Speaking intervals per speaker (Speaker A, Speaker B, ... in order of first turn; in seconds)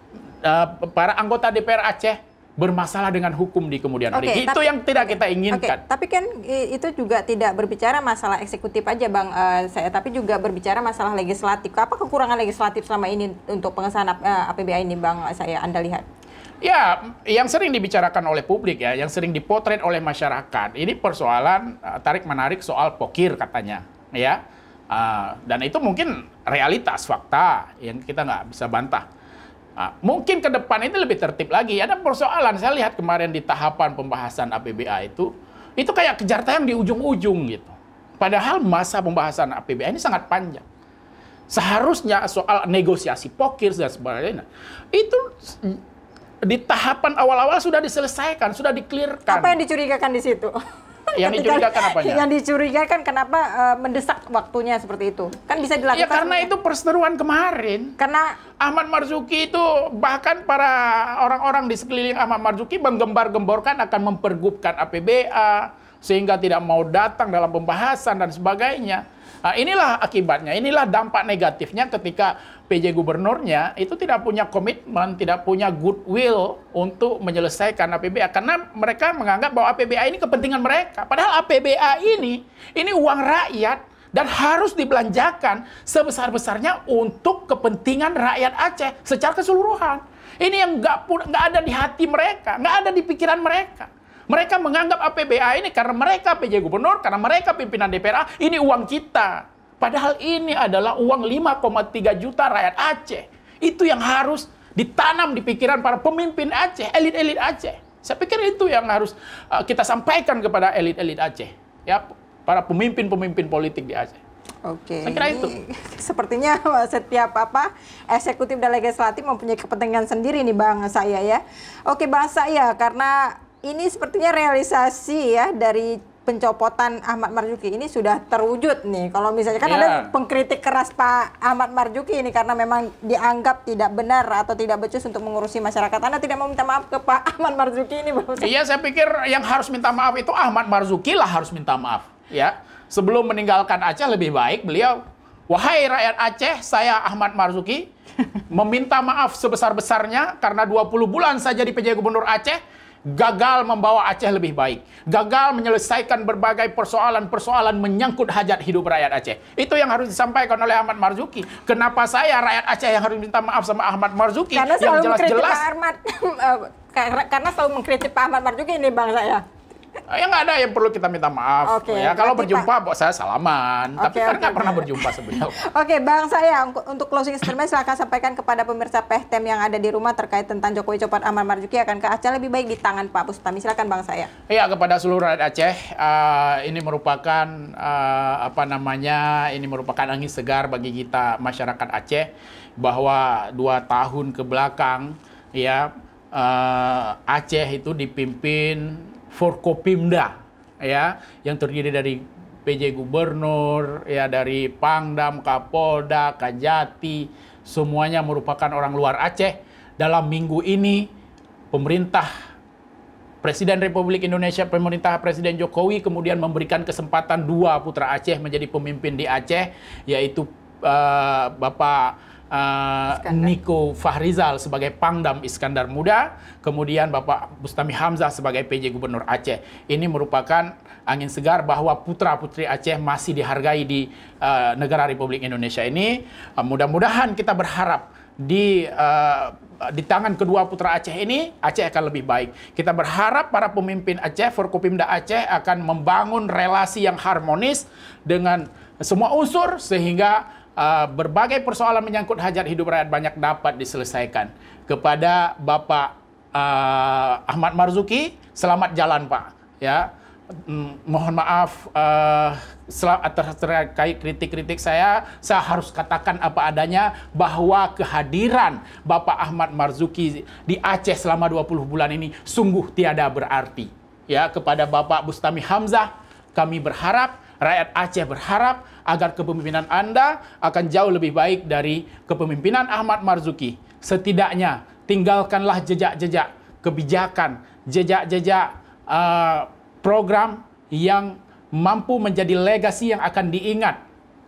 Speaker A: 0.4-5.8, 16.6-29.0, 29.8-40.6, 41.5-45.8, 46.4-49.5, 51.1-52.2, 55.9-58.0, 58.6-114.2, 115.0-115.5, 129.6-130.1, 138.4-147.8, 148.5-152.6, 153.1-165.6, 170.1-175.6, 184.5-192.3, 192.8-211.1, 211.7-212.3, 213.4-294.0
Speaker B: 4.1-16.0, 49.3-50.6, 51.1-56.5, 58.0-58.4, 114.7-138.5, 164.5-169.4, 171.7-172.7, 174.0-184.3, 223.1-223.5